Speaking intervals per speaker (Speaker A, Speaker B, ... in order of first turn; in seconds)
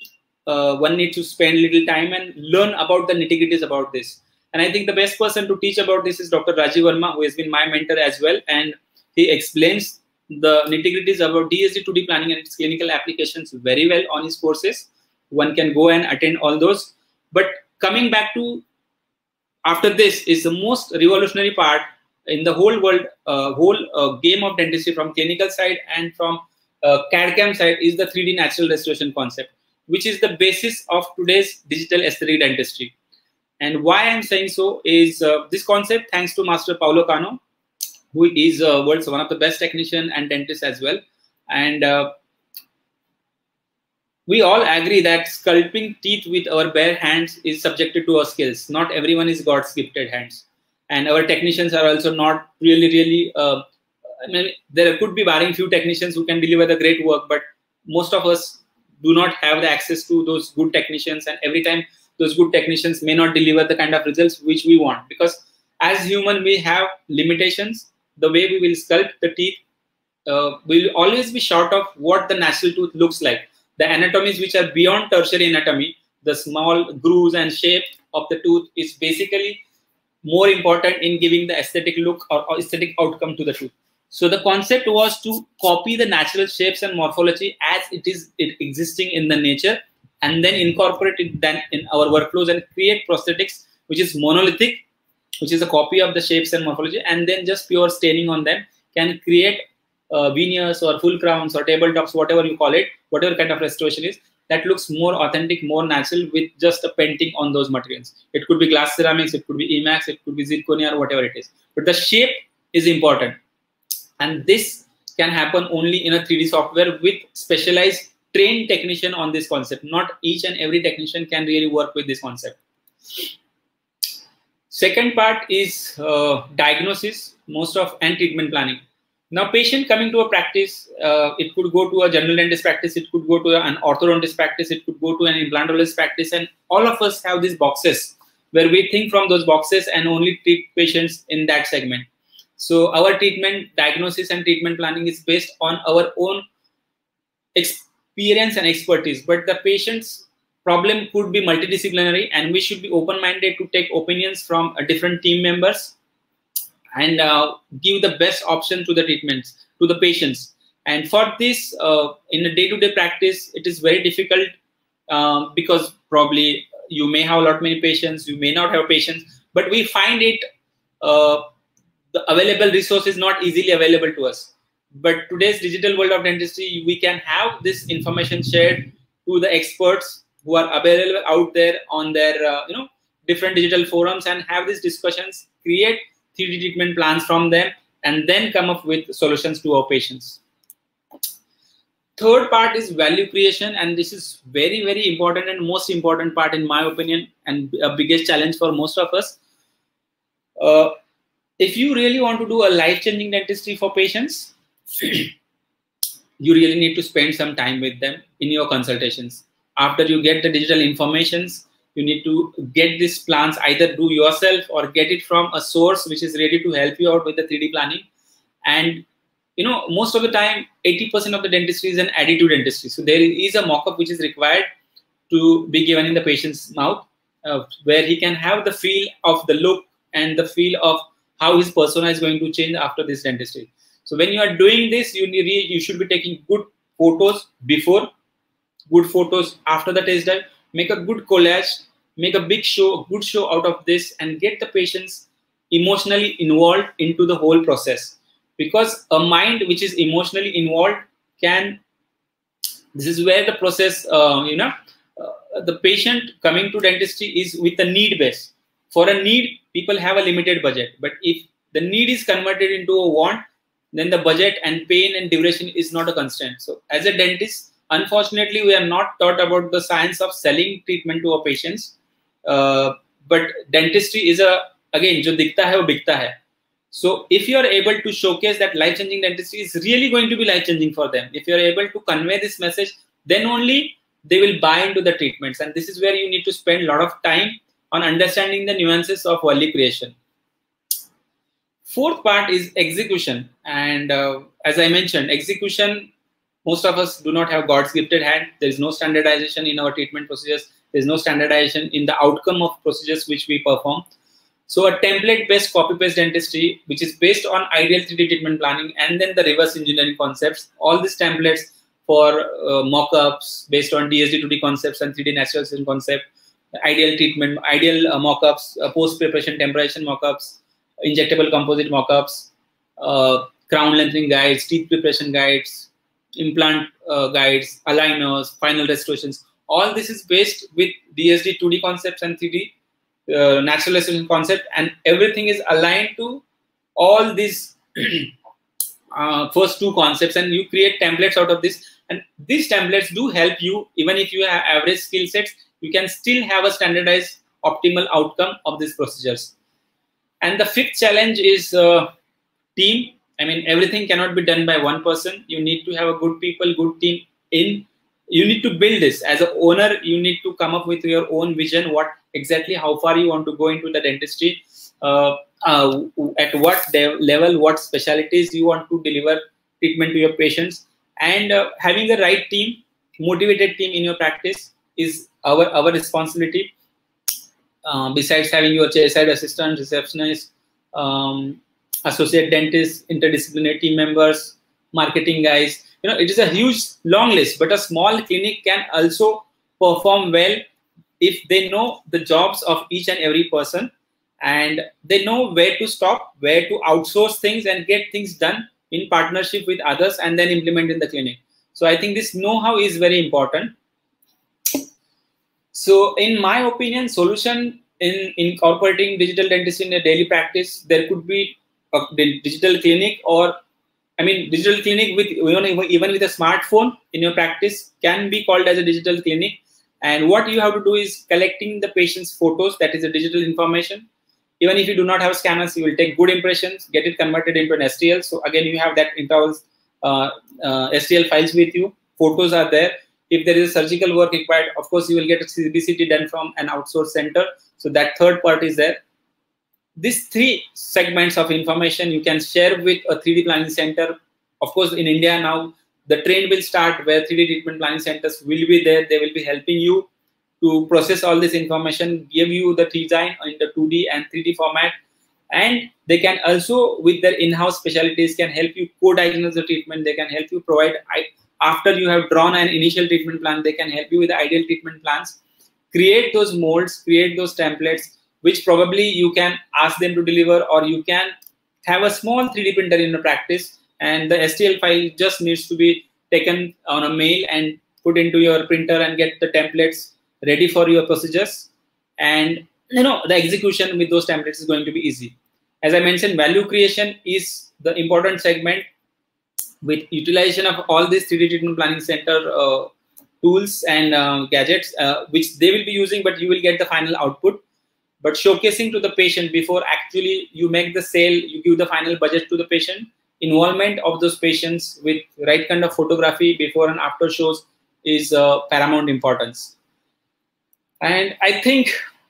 Speaker A: 0.5-18.6, 19.6-32.9, 33.6-37.4, 38.1-42.1, 44.3-53.6, 54.2-69.6, 70.2-79.6, 80.2-94.8, 95.4-113.4, 114.2-122.6, 124.7-142.1, 142.6-146.4, 147.5-155.9, 156.9-164.5, 165.1-170.4, 171.0-171.4, 172.1-190.4, 192.2-199.4, 200.6-200.9, 201.6-205.3, 206.4-218.0, 218.7-219.0, 219.6-224.7, 225.3-238.1, 238.9-251.8, 252.9-271.9, 272.4-276.4, 276.9-290.1, 291.9-296.1, 296.6-304.0, 304.7-316.2, 316.8-332.7, 333.3-336.4, 336.9-338.3, 339.1-349.5, 350.4-352.1, 352.8-376.7, 377.8-390.6, 391.2-393.9, 394.4-403.7, 405.7-413.6, 414.2-424.1, 424.6-439.0, 440.0-450.1, 450.6-454.9, 455.5-465.4, 465.9-471.3, 471.8-488.9, 489.8-492.9, 493.4-497.6, 498.2-509.7, 511.0-511.9